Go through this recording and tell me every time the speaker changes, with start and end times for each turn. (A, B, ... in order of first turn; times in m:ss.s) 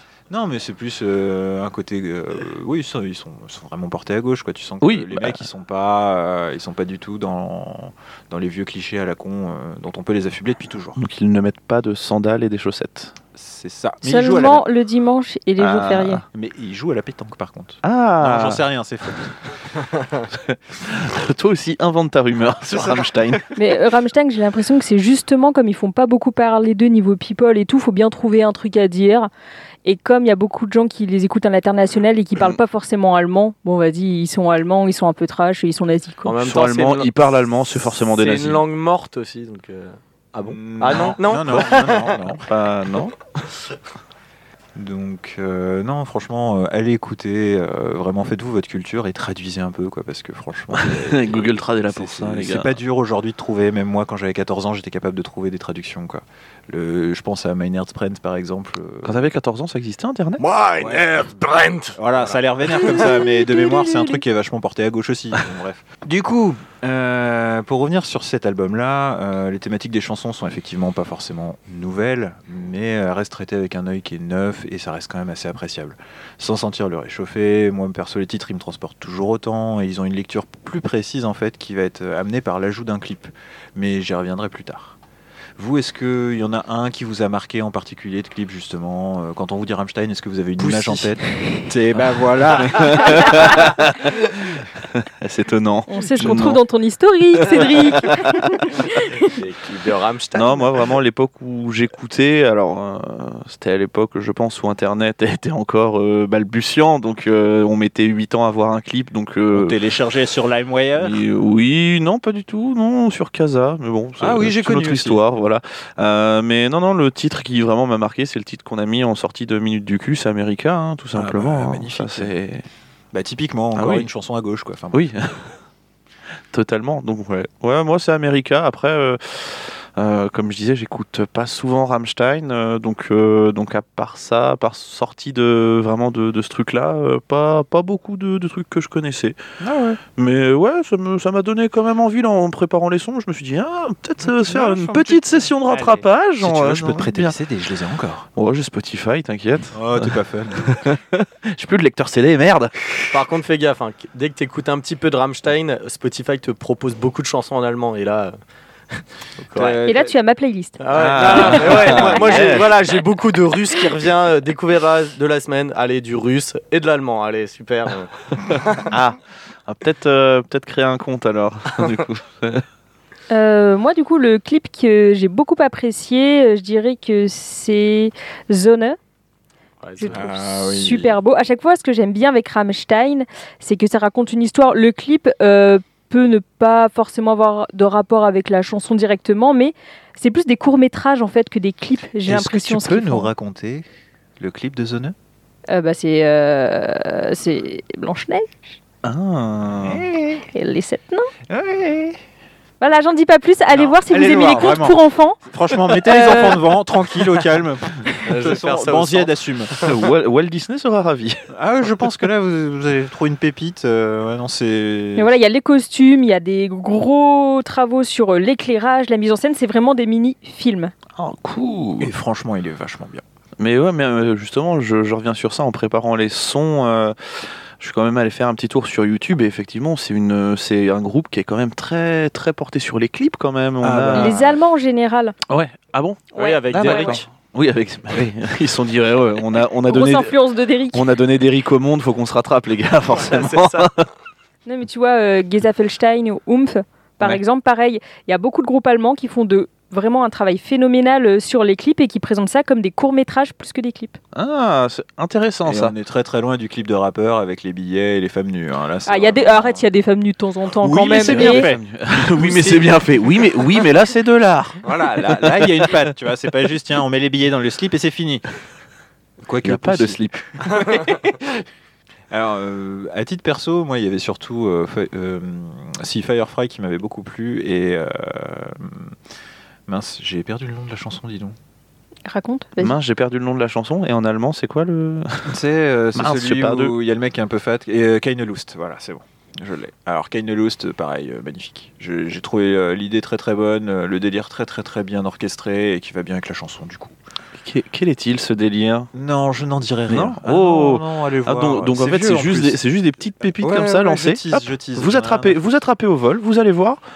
0:00.3-0:11.0 A
0:04.8-0:05.4 B
0:11.0-0:13.2 B
0:13.4-0:14.6 A
0:14.0-0:16.2 C
0:15.6-0:16.2 B
0:16.3-0:19.4 A
0:17.8-0:18.6 B
0:20.3-0:23.6 B
0:23.6-0:29.3 C
0:29.8-0:36.4 C
0:36.2-0:37.1 D
0:36.4-0:38.6 B
0:37.8-0:42.2 D
0:40.4-0:42.4 A
0:42.4-0:43.2 B
0:44.8-0:59.3 A
0:50.7-0:52.8 B
0:59.0-1:00.4 B
1:00.4-1:02.0 D
1:02.0-1:25.0 A
1:02.8-1:04.2 C
1:25.6-1:33.6 A
1:30.6-1:31.1 D
1:32.6-1:36.6 B
1:35.9-1:39.2 C
1:38.1-1:38.5 B
1:39.2-1:41.0 D
1:40.3-1:49.8 B
1:49.5-1:51.2 A
1:51.0-2:02.7 B
1:54.2-1:55.2 A
2:01.1-2:02.3 A
2:03.1-2:05.2 A
2:03.8-2:04.1 B
2:04.9-2:05.5 B
2:06.5-2:19.4 B
2:19.6-2:20.0 A
2:20.2-2:27.4 B
2:24.3-2:28.3 A
2:28.4-2:32.9 B
2:29.7-2:30.8 A
2:33.1-2:38.4 D
2:38.9-2:39.8 D
2:39.6-2:40.1 A
2:39.8-2:42.6 C
2:40.8-2:48.9 D
2:40.9-2:42.7 B
2:48.9-2:52.6 B
2:53.3-2:59.0 C
2:59.8-3:00.3 D
3:00.0-3:13.3 C
3:00.1-3:01.2 A
3:12.3-3:13.9 A
3:14.4-3:15.2 A
3:15.7-3:18.6 C
3:19.0-3:20.0 B
3:19.8-3:20.4 A
3:20.5-3:21.3 C
3:21.5-3:22.2 A
3:22.8-3:26.7 C
3:23.7-3:29.8 A
3:28.2-3:30.0 D
3:29.8-3:31.5 B
3:31.5-3:35.3 A
3:35.2-3:40.9 C
3:41.2-3:42.1 B
3:42.0-3:43.2 A
3:43.6-3:54.4 B
3:53.8-3:54.5 A
3:54.1-3:55.4 C
3:55.5-4:00.4 B
3:56.3-3:57.3 D
3:56.4-3:57.2 C
3:59.9-4:01.1 C
4:00.9-4:04.1 B
4:03.2-4:03.9 D
4:04.7-4:14.2 C
4:14.3-4:15.9 B
4:15.7-4:19.9 A
4:19.1-4:21.7 C
4:20.8-4:21.8 A
4:20.9-4:26.0 B
4:22.3-4:22.8 A
4:24.8-4:28.4 A
4:29.4-4:31.6 A
4:29.6-4:30.4 B
4:32.3-4:39.2 A
4:39.9-4:41.6 A
4:42.3-4:43.0 C
4:42.8-4:45.6 B
4:45.5-4:57.2 A
4:46.2-4:47.0 B
4:57.6-4:59.1 B
4:59.1-5:02.8 A
5:00.1-5:07.0 B
5:03.6-5:05.6 A